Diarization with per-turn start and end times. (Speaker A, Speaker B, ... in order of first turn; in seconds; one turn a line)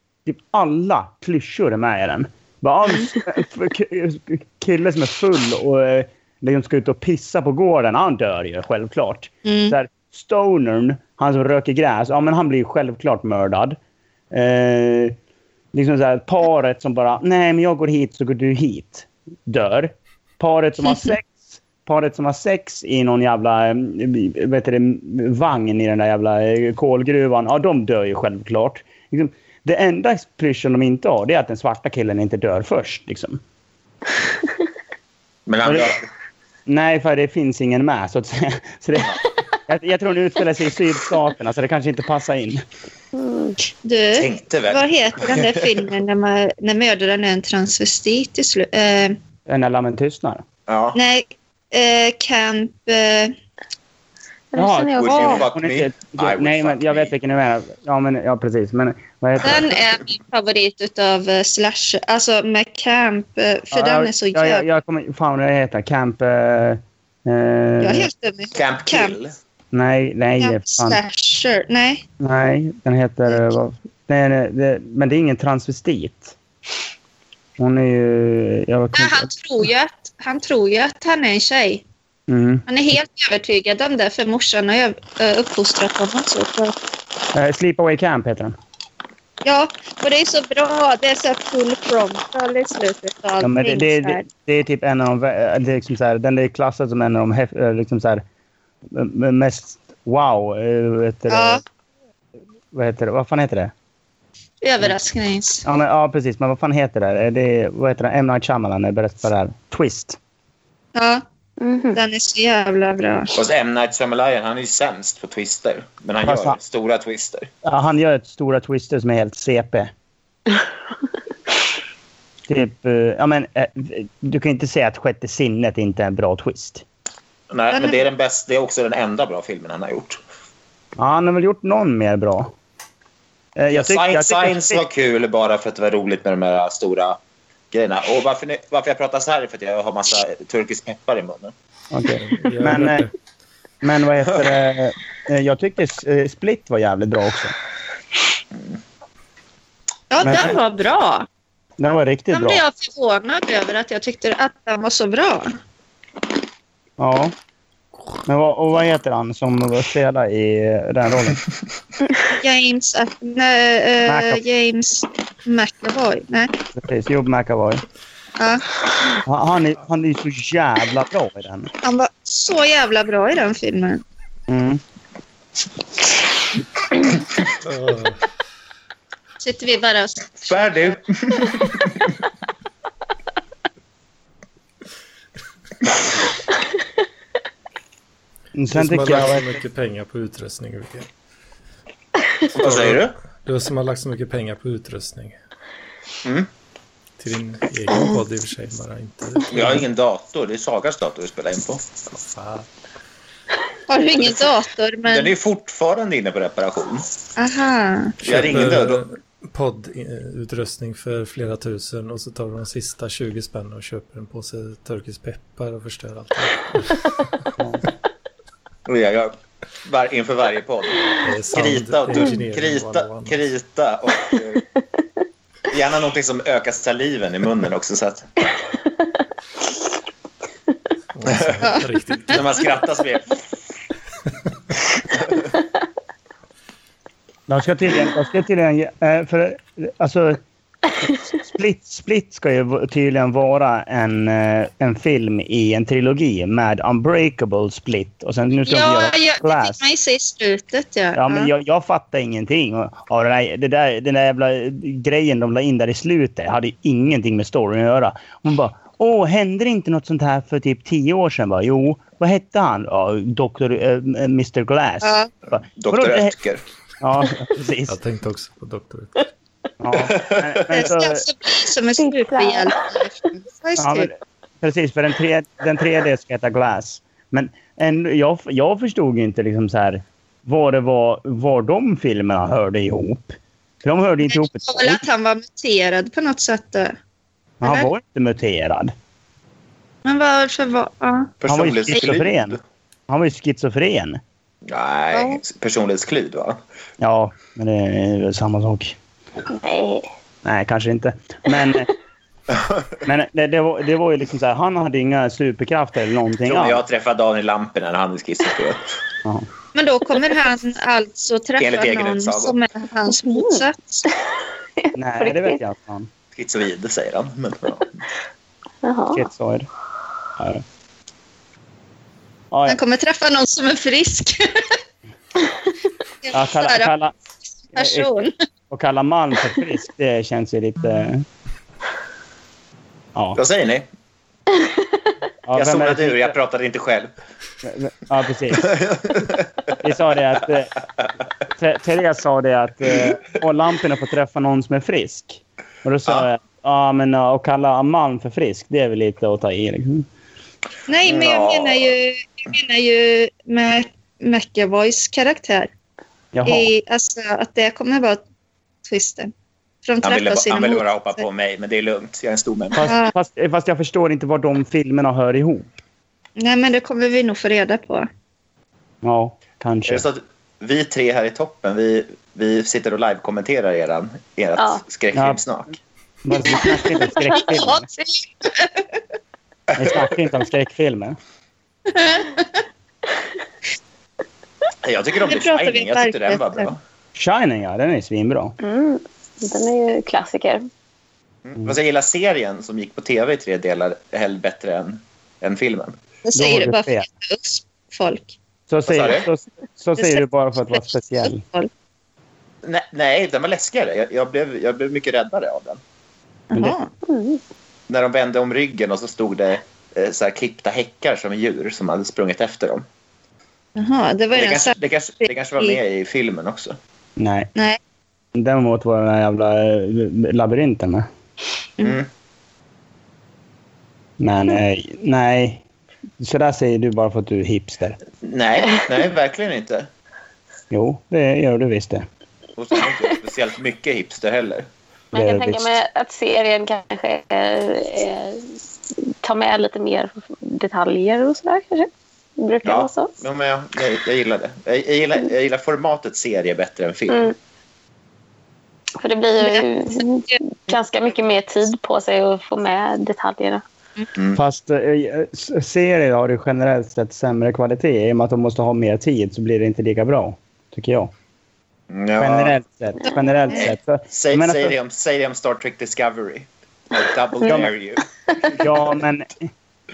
Speaker A: 0.3-13.8
Speaker B: 2.9-3.1
Speaker B: 9.4-9.8
Speaker A: 14.3-15.2
Speaker A: 15.7-33.4
Speaker C: 35.5-36.1
Speaker A: 35.6-35.9
Speaker A: 36.7-39.2
Speaker A: 39.7-42.6
Speaker D: 43.2-43.6
Speaker B: 43.8-49.2
Speaker C: 44.1-45.9
Speaker A: 49.5-50.4
Speaker C: 50.7-51.0
Speaker B: 51.0-53.3
Speaker D: 54.5-55.4
Speaker A: 54.5-59.7
Speaker C: 55.0-57.1
Speaker B: 55.1-55.4
Speaker B: 59.4-64.7
Speaker A: 63.7-68.1
Speaker B: 67.8-69.2
Speaker C: 68.5-69.4
Speaker A: 69.7-71.0
Speaker B: 70.4-72.0
Speaker A: 72.2-76.3
Speaker A: 77.6-79.3
Speaker B: 78.9-81.8
Speaker A: 82.3-82.7
Speaker B: 82.7-86.7
Speaker A: 87.3-88.6
Speaker B: 89.4-94.2
Speaker A: 93.4-98.2
Speaker A: 98.9-101.6
Speaker B: 101.3-101.6
Speaker A: 102.7-103.7
Speaker B: 104.6-105.6
Speaker A: 105.6-110.2
Speaker B: 111.0-111.2
Speaker D: 111.6-112.0
Speaker B: 111.9-113.3
Speaker C: 113.3-117.5
Speaker A: 116.2-116.6
Speaker A: 117.6-119.9
Speaker A: 122.5-126.8
Speaker C: 127.5-130.2
Speaker B: 127.7-128.0
Speaker A: 131.0-132.5
Speaker A: 133.6-134.8
Speaker C: 133.7-137.2
Speaker C: 137.7-141.5
Speaker A: 141.9-143.1
Speaker E: 142.2-143.1
Speaker A: 143.8-147.6
Speaker B: 150.1-151.3
Speaker A: 150.2-150.6
Speaker A: 151.8-152.6
Speaker B: 152.3-155.6
Speaker A: 157.0-157.3
Speaker A: 158.3-161.4
Speaker B: 162.4-166.5
Speaker A: 164.1-164.4
Speaker A: 166.8-167.8
Speaker B: 168.4-168.7
Speaker A: 169.2-171.7
Speaker B: 171.8-174.0
Speaker A: 174.5-174.8
Speaker E: 177.6-178.3
Speaker B: 179.4-180.9
Speaker C: 180.5-182.1
Speaker A: 188.6-189.6
Speaker E: 188.7-191.1
Speaker C: 192.6-193.2
Speaker E: 192.6-195.4
Speaker C: 196.2-196.5
Speaker E: 197.2-199.9
Speaker C: 199.5-201.9
Speaker E: 202.2-202.7
Speaker B: 203.9-205.3
Speaker C: 204.2-204.5
Speaker C: 205.1-207.1
Speaker B: 207.4-208.2
Speaker E: 208.2-217.3
Speaker C: 208.2-209.1
Speaker A: 217.6-217.8
Speaker C: 218.9-224.6
Speaker E: 221.2-223.4
Speaker C: 225.7-228.3
Speaker E: 231.2-232.5
Speaker C: 231.3-231.7
Speaker C: 232.3-233.4
Speaker C: 235.1-235.4
Speaker A: 237.5-240.4
Speaker A: 241.4-249.8
Speaker B: 248.7-251.5
Speaker A: 251.2-266.4
Speaker B: 265.0-265.3
Speaker C: 265.8-266.6
Speaker A: 267.0-268.0
Speaker E: 267.9-269.3
Speaker A: 269.8-271.2
Speaker C: 270.0-270.6
Speaker B: 270.7-274.1
Speaker D: 272.0-272.8
Speaker A: 273.8-285.0
Speaker B: 284.3-286.9
Speaker B: 287.6-287.9
Speaker A: 287.6-288.9
Speaker B: 290.1-291.3
Speaker C: 291.4-292.6
Speaker A: 291.5-294.2
Speaker C: 294.7-296.6
Speaker B: 295.1-295.4
Speaker A: 297.0-299.0
Speaker D: 299.5-300.1
Speaker A: 300.4-301.9
Speaker C: 302.5-303.0
Speaker A: 303.1-306.8
Speaker C: 306.4-308.8
Speaker B: 309.7-314.1
Speaker C: 311.6-312.6
Speaker D: 313.1-314.1
Speaker D: 314.8-315.6
Speaker A: 315.0-316.1
Speaker C: 316.3-318.1
Speaker D: 318.8-319.3
Speaker A: 319.1-319.7
Speaker A: 320.4-320.6
Speaker A: 322.5-322.8
Speaker B: 322.7-324.6
Speaker B: 326.2-326.9
Speaker A: 326.3-327.1
Speaker A: 327.7-328.1
Speaker B: 327.8-328.3
Speaker A: 328.7-331.3
Speaker C: 333.4-333.9
Speaker A: 335.5-336.3
Speaker C: 335.6-337.1
Speaker A: 337.6-338.8
Speaker C: 338.6-339.5
Speaker A: 339.8-340.8
Speaker A: 341.6-350.1
Speaker B: 350.9-355.7
Speaker C: 351.1-351.9
Speaker A: 356.3-356.7
Speaker B: 356.5-358.2
Speaker B: 358.9-359.3
Speaker B: 359.8-361.2
Speaker C: 360.0-362.9
Speaker A: 362.8-365.7
Speaker B: 362.9-363.1
Speaker B: 366.4-368.1
Speaker A: 369.0-370.1
Speaker C: 369.9-375.8
Speaker A: 375.1-375.4
Speaker A: 376.2-377.9
Speaker B: 377.4-378.9
Speaker A: 379.8-381.2
Speaker B: 381.9-382.5
Speaker C: 384.8-386.8
Speaker B: 385.3-386.7
Speaker A: 387.2-388.6
Speaker D: 388.6-390.7
Speaker C: 391.5-396.0
Speaker B: 396.3-398.4
Speaker A: 396.4-397.1
Speaker A: 398.7-401.4
Speaker C: 398.9-399.3
Speaker B: 401.2-401.7
Speaker C: 402.6-405.8
Speaker B: 406.5-406.9
Speaker D: 407.1-407.4
Speaker C: 407.9-412.9
Speaker B: 413.8-414.8
Speaker C: 414.3-416.8
Speaker A: 417.2-417.5
Speaker A: 418.4-421.1
Speaker C: 421.8-422.1
Speaker A: 424.2-425.6
Speaker A: 426.2-428.0
Speaker C: 428.2-429.9
Speaker A: 430.7-432.1
Speaker C: 432.6-434.7
Speaker D: 435.1-438.6
Speaker A: 435.1-435.8
Speaker D: 439.1-443.1
Speaker C: 442.6-447.3
Speaker D: 447.1-447.4
Speaker D: 449.0-453.6
Speaker B: 449.4-449.7
Speaker A: 454.3-461.1
Speaker C: 461.9-462.6
Speaker A: 462.2-464.8
Speaker C: 463.5-468.8
Speaker A: 467.4-467.7
Speaker A: 468.6-469.5